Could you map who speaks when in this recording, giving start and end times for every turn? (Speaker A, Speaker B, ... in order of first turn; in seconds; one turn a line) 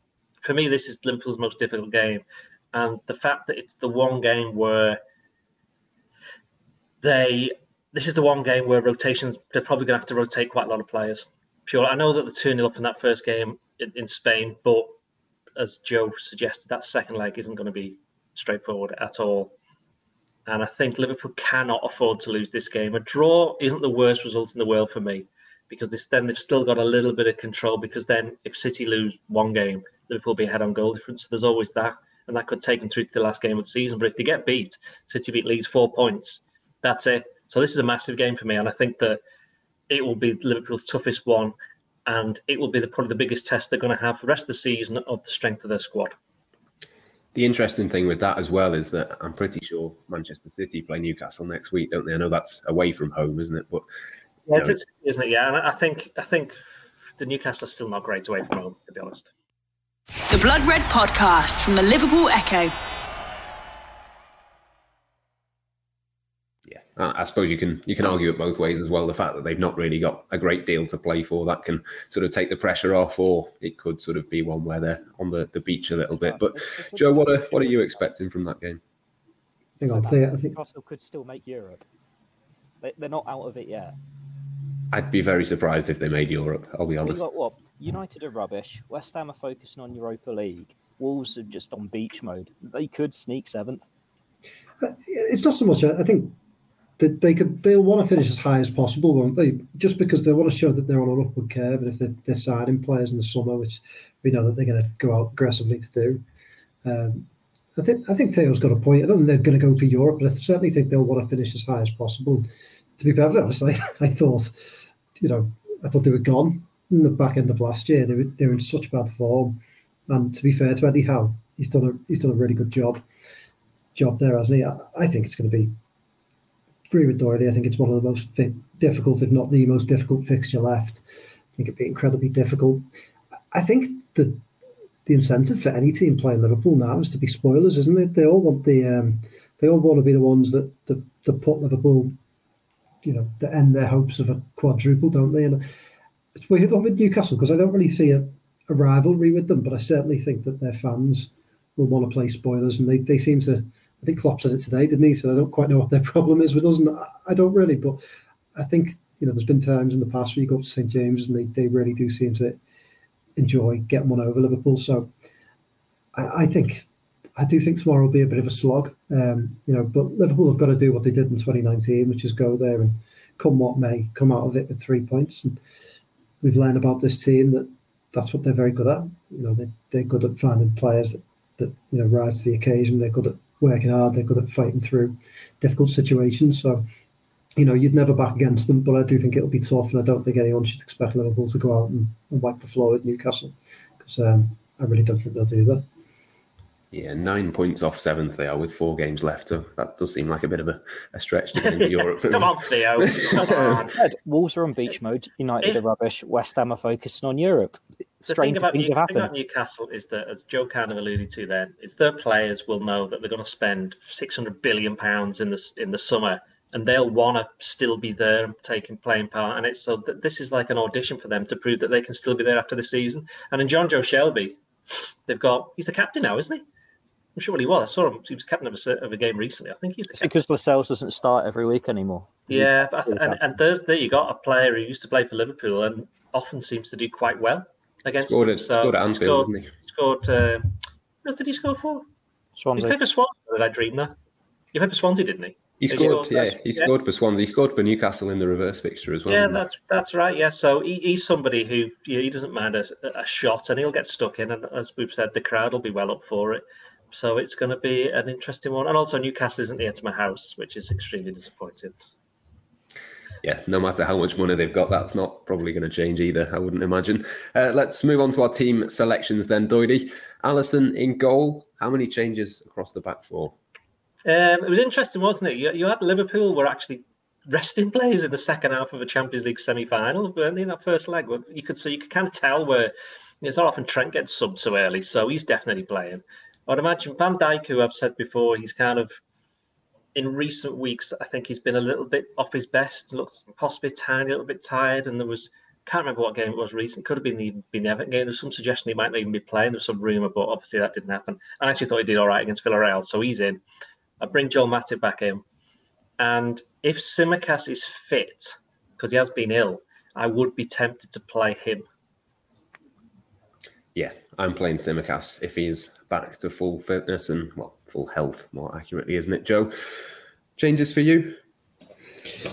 Speaker A: 0.4-5.0
Speaker A: 7.0-14.9
Speaker A: 15.6-19.5
Speaker A: 20.5-39.2
Speaker A: 39.9-41.5
Speaker A: 42.0-46.1
Speaker B: 47.3-53.9
Speaker A: 54.5-56.6
Speaker A: 57.2-59.3
Speaker C: 60.3-62.7
Speaker B: 66.7-78.8
Speaker D: 76.2-78.1
Speaker D: 79.8-81.8
Speaker E: 79.8-80.6
Speaker D: 82.8-84.0
Speaker B: 84.9-87.2
Speaker D: 87.0-93.8
Speaker E: 94.8-96.3
Speaker E: 97.0-106.2
Speaker E: 106.8-114.5
Speaker E: 115.2-123.0
Speaker E: 123.9-125.7
Speaker E: 126.9-131.0
Speaker E: 131.6-132.8
Speaker E: 133.5-134.4
Speaker E: 135.1-142.2
Speaker E: 143.0-145.6
Speaker E: 146.3-158.0
Speaker E: 158.5-162.6
Speaker E: 163.3-165.1
Speaker E: 166.1-175.6
Speaker E: 176.4-186.8
Speaker E: 187.6-195.8
Speaker B: 196.9-203.9
Speaker A: 201.6-203.9
Speaker D: 203.9-209.3
Speaker A: 208.3-224.6
Speaker A: 225.3-226.6
Speaker A: 227.3-230.3
Speaker D: 230.1-233.4
Speaker A: 232.5-240.7
Speaker B: 238.2-239.7
Speaker A: 241.2-242.0
Speaker D: 242.6-242.9
Speaker A: 242.8-244.1
Speaker A: 244.7-246.9
Speaker B: 245.8-249.6
Speaker A: 249.3-261.9
Speaker B: 263.4-273.5
Speaker A: 274.2-289.1
Speaker A: 290.1-303.6
Speaker A: 304.2-305.4
Speaker A: 306.2-311.9
Speaker B: 313.9-319.7
Speaker B: 320.6-321.4